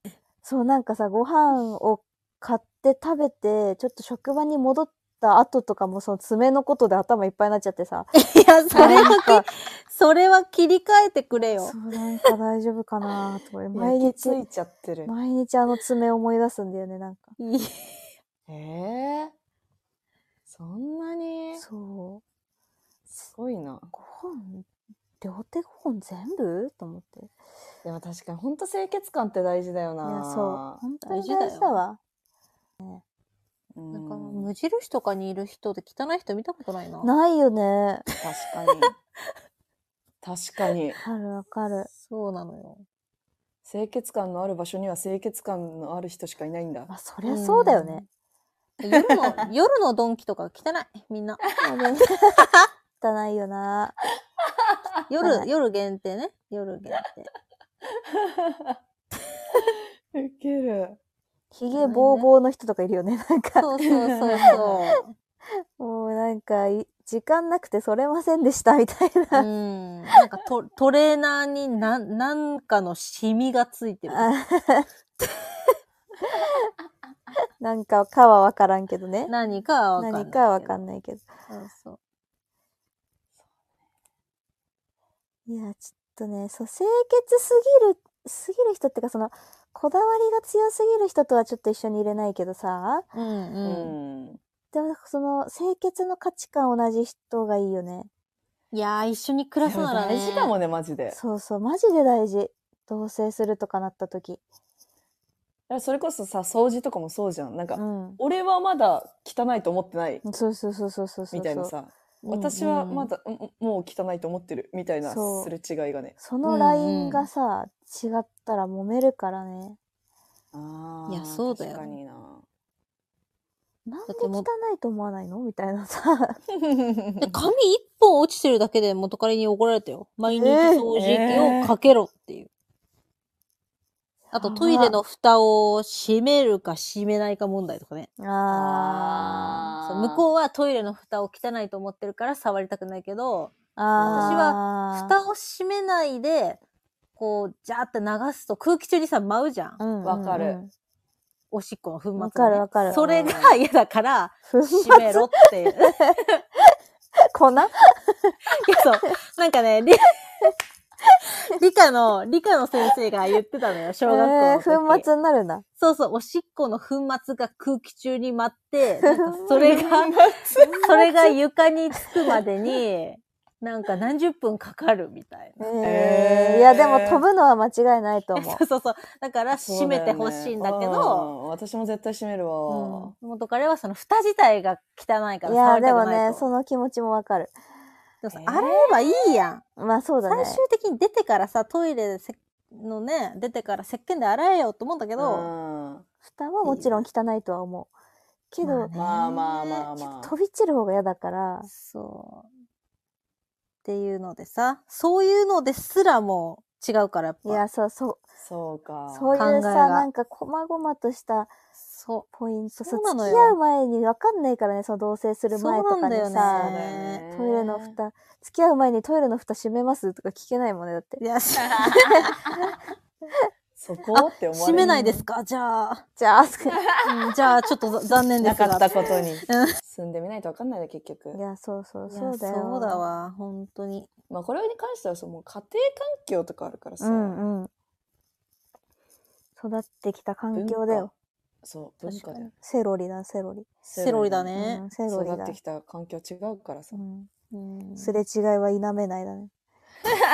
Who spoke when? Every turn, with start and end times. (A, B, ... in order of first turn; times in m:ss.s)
0:00.4-0:08.1 A
0:08.2-0:11.8 B
0:08.7-0:09.5 A
0:08.8-0:09.1 C
0:11.6-0:14.4 A
0:13.7-0:15.1 C
0:15.1-0:17.4 A
0:17.4-0:18.1 B
0:18.5-0:19.3 C
0:20.5-0:21.6 C
0:21.6-0:22.2 A
0:23.1-0:23.9 C
0:24.0-0:24.7 A
0:25.2-0:27.3 A
0:27.8-0:30.8 C
0:30.0-0:32.0 A
0:31.1-0:31.8 B
0:33.7-0:34.5 C
0:33.9-0:37.1 B
0:37.0-0:38.0 A
0:38.2-0:38.9 C
0:40.2-0:41.0 C
0:41.0-0:41.9 A
0:42.0-0:42.8 B
0:43.6-0:46.9 C
0:46.9-0:48.0 A
0:47.2-0:48.1 B
0:48.8-0:51.4 B
0:51.6-0:52.4 A
0:53.0-0:54.0 A
0:55.1-0:57.3 B
0:55.2-0:55.5 A
0:58.1-0:58.8 C
0:59.6-1:01.0 C
1:01.5-1:03.7 A
1:01.8-1:02.3 B
1:03.6-1:05.1 B
1:03.8-1:04.6 C
1:04.3-1:04.8 A
1:05.8-1:09.5 A
1:09.3-1:14.3 B
1:14.1-1:14.9 A
1:17.6-1:19.3 A
1:19.3-1:20.8 B
1:20.0-1:21.3 A
1:21.5-1:22.0 B
1:25.5-1:33.1 A
1:33.1-1:33.9 B
1:33.6-1:34.4 C
1:34.7-1:38.1 A
1:38.7-1:40.5 B
1:39.6-1:41.2 C
1:41.1-1:44.4 A
1:45.7-1:50.2 C
1:47.8-1:48.2 A
1:50.2-1:51.7 A
1:51.3-1:56.2 C
1:52.2-1:53.1 B
1:55.1-1:55.5 A
1:56.2-1:59.8 A
1:56.4-1:57.3 B
2:00.5-2:02.4 C
2:01.1-2:01.9 B
2:03.9-2:06.4 A
2:04.1-2:04.5 B
2:06.6-2:07.3 C
2:07.2-2:12.5 B
2:10.3-2:10.9 A
2:11.0-2:11.7 C
2:14.3-2:15.0 A
2:14.3-2:26.6 B
2:18.2-2:19.7 A
2:19.4-2:20.2 C
2:23.8-2:25.2 A
2:24.1-2:24.4 C
2:27.2-2:29.8 B
2:29.8-2:30.7 A
2:30.0-2:30.6 C
2:31.5-2:36.4 B
2:32.2-2:33.0 A
2:32.9-2:33.6 C
2:34.5-2:35.3 A
2:37.3-2:38.4 A
2:38.5-2:40.5 B
2:41.4-2:45.1 B
2:44.1-2:45.6 A
2:45.8-2:50.2 B
2:49.5-2:51.1 C
2:50.8-2:55.7 B
2:55.6-2:58.6 A
2:55.8-2:57.2 C
2:58.4-3:01.3 B
2:59.5-3:03.1 C
3:02.7-3:03.1 A
3:03.2-3:06.4 B
3:05.5-3:07.5 A
3:08.2-3:09.6 B
3:08.3-3:09.4 C
3:09.8-3:10.6 A
3:10.2-3:15.5 B
3:15.2-3:16.1 C
3:16.3-3:17.9 A
3:16.6-3:17.0 B
3:18.5-3:19.0 A
3:18.6-3:19.8 B
3:18.9-3:20.3 C
3:20.0-3:21.7 A
3:21.7-3:22.5 B
3:23.8-3:27.6 B
3:27.4-3:28.2 A
3:28.4-3:29.4 C
3:29.1-3:31.5 A
3:29.4-3:30.1 B
3:31.9-3:32.3 B
3:32.3-3:41.2 A
3:32.8-3:33.6 B
3:35.5-3:37.2 B
3:36.5-3:38.0 C
3:41.2-3:42.4 B
3:41.6-3:42.3 C
3:43.8-3:44.9 C
3:44.1-3:46.0 B
3:44.8-3:45.2 A
3:46.2-3:46.8 A
3:46.7-3:47.5 C
3:47.0-3:49.7 B
3:48.4-3:51.4 C
3:51.3-3:53.0 A
3:52.1-3:54.1 B
3:54.3-3:57.4 C
3:57.0-3:57.7 A
3:59.6-4:01.1 A
4:00.6-4:01.1 C
4:01.6-4:02.5 C
4:02.1-4:03.7 A
4:03.9-4:04.5 C
4:03.9-4:04.8 B
4:04.5-4:05.6 A
4:05.1-4:07.0 C
4:06.9-4:07.3 A
4:07.5-4:08.2 B
4:08.0-4:09.5 A